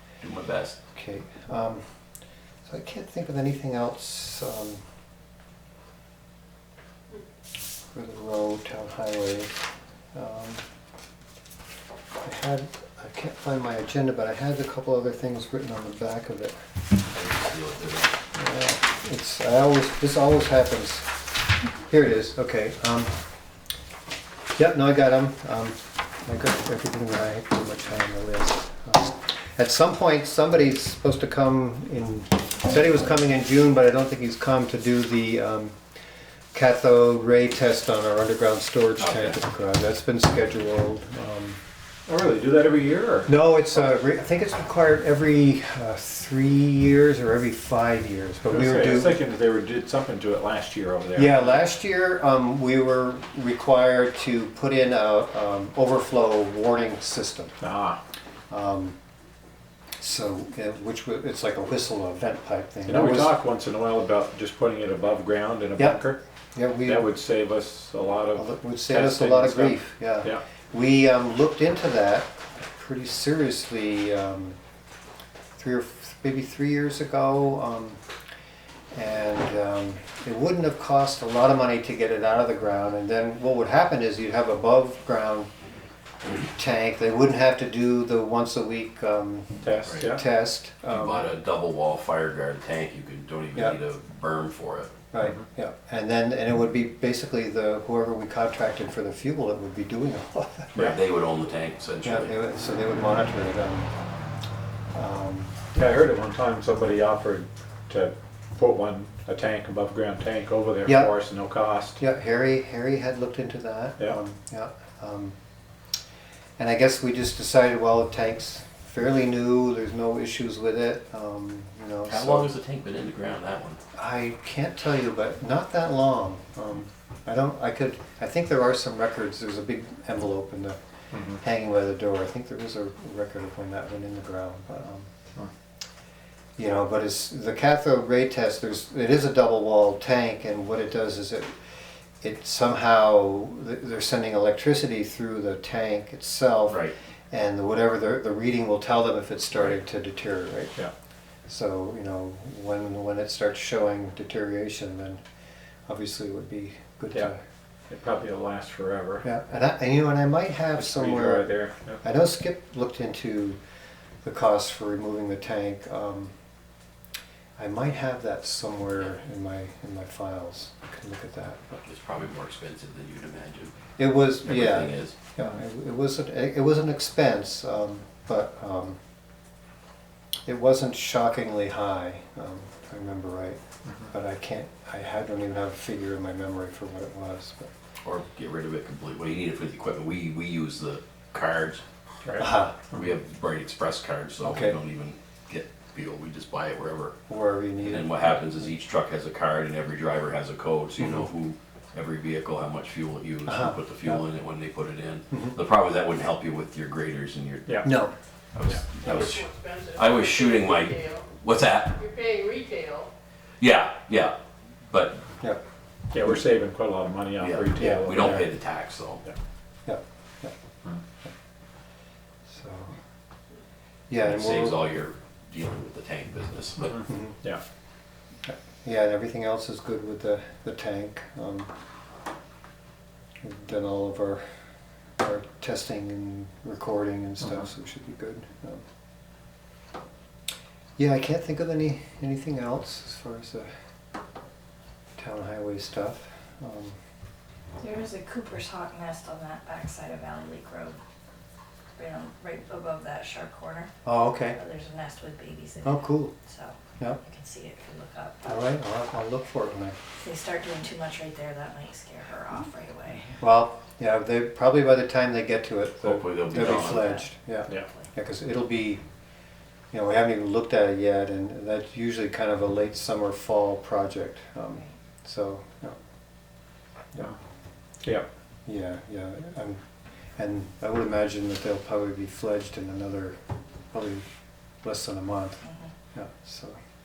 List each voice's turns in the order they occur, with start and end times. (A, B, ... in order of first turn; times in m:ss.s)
0:00.2-0:00.8 A
0:00.9-0:01.8 B
0:02.6-0:04.8 B
0:07.9-0:09.6 B
0:10.1-0:10.6 B
0:12.2-0:16.6 B
0:17.1-0:18.1 A
0:18.4-0:21.1 B
0:21.8-0:23.1 B
0:24.6-0:35.8 B
0:36.5-0:41.6 B
0:42.1-0:43.3 C
0:43.3-0:49.2 B
0:48.5-0:51.6 C
0:51.1-0:57.6 B
0:57.6-0:58.0 C
0:58.5-0:59.0 B
1:00.0-1:03.3 B
1:02.8-1:06.2 C
1:05.8-1:07.1 B
1:06.8-1:10.4 C
1:08.4-1:14.6 B
1:15.6-1:18.0 B
1:18.9-1:25.5 B
1:26.5-1:31.3 B
1:29.6-1:30.2 C
1:30.9-1:34.9 A
1:35.1-1:40.8 B
1:40.8-1:42.3 A
1:42.0-1:43.9 B
1:44.9-1:45.6 B
1:45.7-1:52.0 C
1:50.8-1:51.1 B
1:52.0-1:55.3 B
1:56.6-2:02.5 B
2:02.1-2:03.8 A
2:04.0-2:10.8 B
2:11.3-2:15.1 B
2:16.6-2:21.5 B
2:22.2-2:30.7 B
2:26.7-2:26.9 A
2:31.5-2:35.2 B
2:35.9-2:37.4 B
2:37.9-2:39.2 C
2:39.2-2:41.5 B
2:40.7-2:42.0 C
2:42.0-2:43.6 B
2:44.2-2:46.3 B
2:47.6-2:51.8 B
2:51.8-2:53.8 A
2:54.0-2:59.0 B
2:54.4-2:55.2 A
3:00.5-3:07.7 B
3:08.0-3:11.8 A
3:12.4-3:12.8 B
3:12.9-3:17.2 A
3:14.4-3:14.8 B
3:17.3-3:18.5 B
3:17.8-3:27.9 A
3:23.4-3:23.8 B
3:25.3-3:25.6 B
3:27.8-3:28.1 B
3:28.5-3:32.0 A
3:29.0-3:31.2 D
3:32.0-3:33.1 D
3:33.6-3:34.4 A
3:34.9-3:35.2 A
3:36.1-3:38.4 C
3:37.4-3:39.2 A
3:37.8-3:38.4 B
3:39.8-3:40.5 B
3:42.5-3:42.9 B
3:44.1-3:44.8 B
3:44.2-3:47.0 A
3:47.0-3:47.4 B
3:48.4-3:51.7 B
3:53.4-3:54.4 B
3:55.2-3:58.8 B
4:01.0-4:03.7 B
4:05.2-4:06.9 B
4:07.8-4:11.0 E
4:12.0-4:13.9 E
4:14.0-4:14.6 B
4:14.5-4:18.6 E
4:15.8-4:16.3 B
4:18.4-4:20.0 B
4:20.2-4:23.3 E
4:23.4-4:29.0 B
4:26.0-4:27.1 A
4:26.8-4:28.0 E
4:29.9-4:36.0 B
4:38.6-4:39.8 B
4:40.4-4:43.4 B
4:43.9-4:44.3 B
4:44.8-4:46.8 B